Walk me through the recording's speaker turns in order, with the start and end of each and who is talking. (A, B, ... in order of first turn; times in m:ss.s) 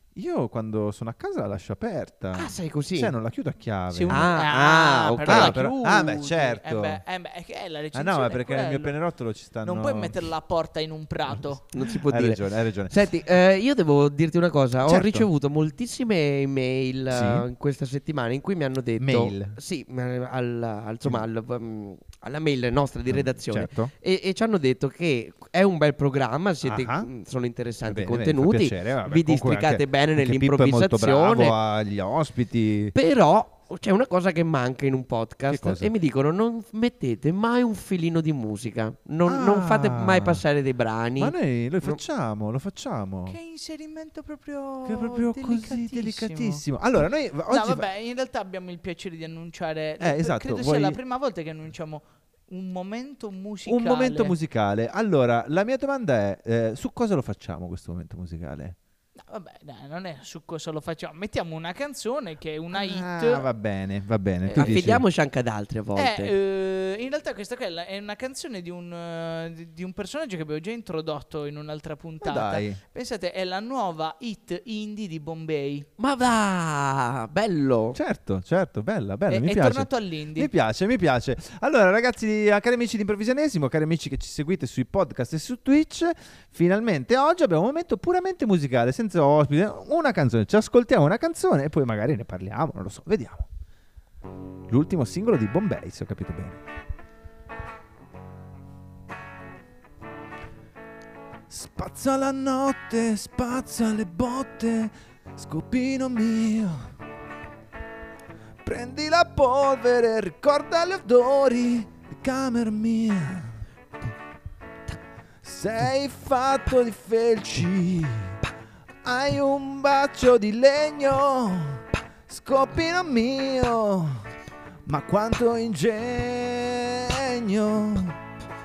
0:00.2-0:04.4 A
0:02.4-0:03.1 B
0:03.9-0:09.0 C
0:04.1-0:05.6 B
0:05.2-0:07.0 A
0:07.9-0:10.3 A
0:09.6-0:11.6 C
0:11.3-0:13.0 A
0:11.7-0:31.6 B
0:14.8-0:15.3 A
0:17.1-0:17.5 A
0:19.0-0:19.6 A
0:23.1-0:23.9 A
0:26.6-0:27.1 A
0:27.9-0:33.0 A
0:32.9-0:42.0 B
0:35.5-0:35.9 A
0:39.2-0:40.4 A
0:41.2-0:43.4 A
0:43.3-0:46.6 C
0:44.8-0:47.9 A
0:47.5-0:54.4 C
0:50.0-0:51.0 A
0:53.7-0:58.8 A
0:59.2-1:03.5 C
1:02.7-1:05.0 A
1:04.5-1:04.8 C
1:04.6-1:06.3 B
1:06.0-1:15.9 C
1:12.2-1:12.8 A
1:16.0-1:18.0 B
1:18.0-1:33.5 A
1:19.3-1:20.5 C
1:34.7-1:36.6 A
1:41.5-1:46.9 A
1:48.6-1:53.6 A
1:55.4-1:58.4 A
1:59.0-2:04.2 A
2:04.9-2:08.2 A